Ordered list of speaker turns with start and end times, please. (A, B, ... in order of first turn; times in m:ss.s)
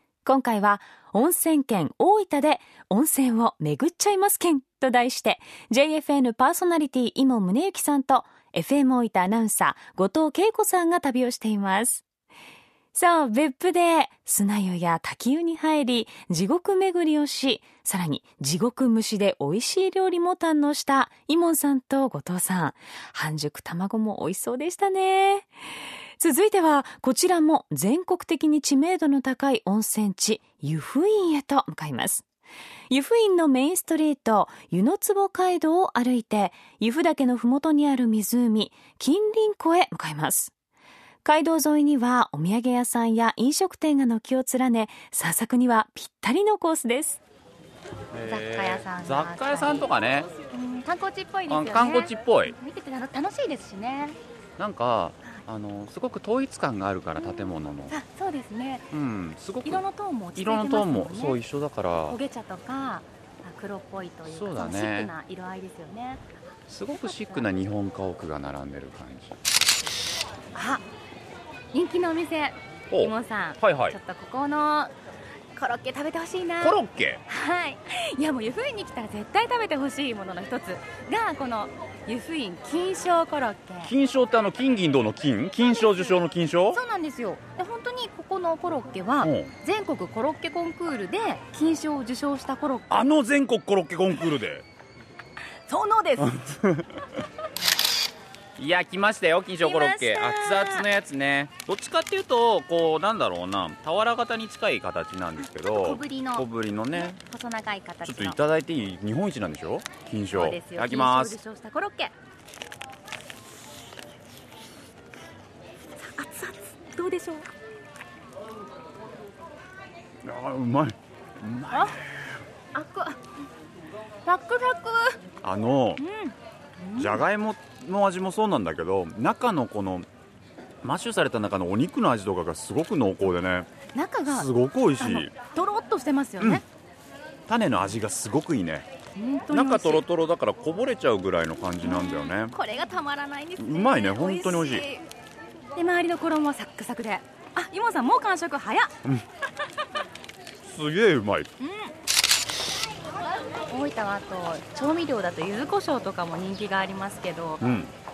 0:00.2-0:12.0 A
0:12.9-0:25.5 A
0:26.2-0:32.2 A
0:32.9-0:40.5 A
0:41.2-0:47.2 A
0:48.1-0:50.3 B
0:48.2-0:49.9 C
0:50.4-0:54.2 C
0:51.5-0:52.5 B
0:54.6-0:58.0 B
0:57.2-0:58.9 C
0:58.9-0:59.8 B
0:59.6-1:01.4 C
1:00.4-1:02.2 B
1:02.1-1:06.2 C
1:04.3-1:05.1 B
1:06.7-1:09.4 B
1:06.9-1:07.5 C
1:10.5-1:10.8 C
1:11.7-1:14.9 C
1:12.9-1:14.0 B
1:15.5-1:23.9 C
1:16.6-1:17.2 B
1:23.8-1:26.8 B
1:25.7-1:26.2 C
1:26.7-1:32.9 C
1:29.2-1:29.5 B
1:32.9-1:34.6 B
1:35.7-1:36.6 C
1:36.3-1:36.8 B
1:38.6-1:47.2 B
1:39.6-1:40.8 C
1:45.4-1:48.4 C
1:48.0-1:51.4 B
1:50.3-1:52.1 C
1:56.0-1:57.5 C
2:00.2-2:02.2 B
2:01.7-2:02.0 C
2:02.7-2:03.2 C
2:04.2-2:05.2 C
2:05.4-2:06.0 B
2:06.0-2:07.2 C
2:07.0-2:10.1 B
2:10.8-2:13.7 B
2:13.9-2:16.6 C
2:14.3-2:15.3 B
2:17.5-2:18.9 B
2:19.2-2:20.0 C
2:19.5-2:22.5 B
2:21.8-2:25.0 C
2:23.6-2:24.8 B
2:25.7-2:28.9 C
2:30.6-2:31.5 B
2:31.6-2:31.9 C
2:33.7-2:37.6 C
2:37.6-2:37.9 B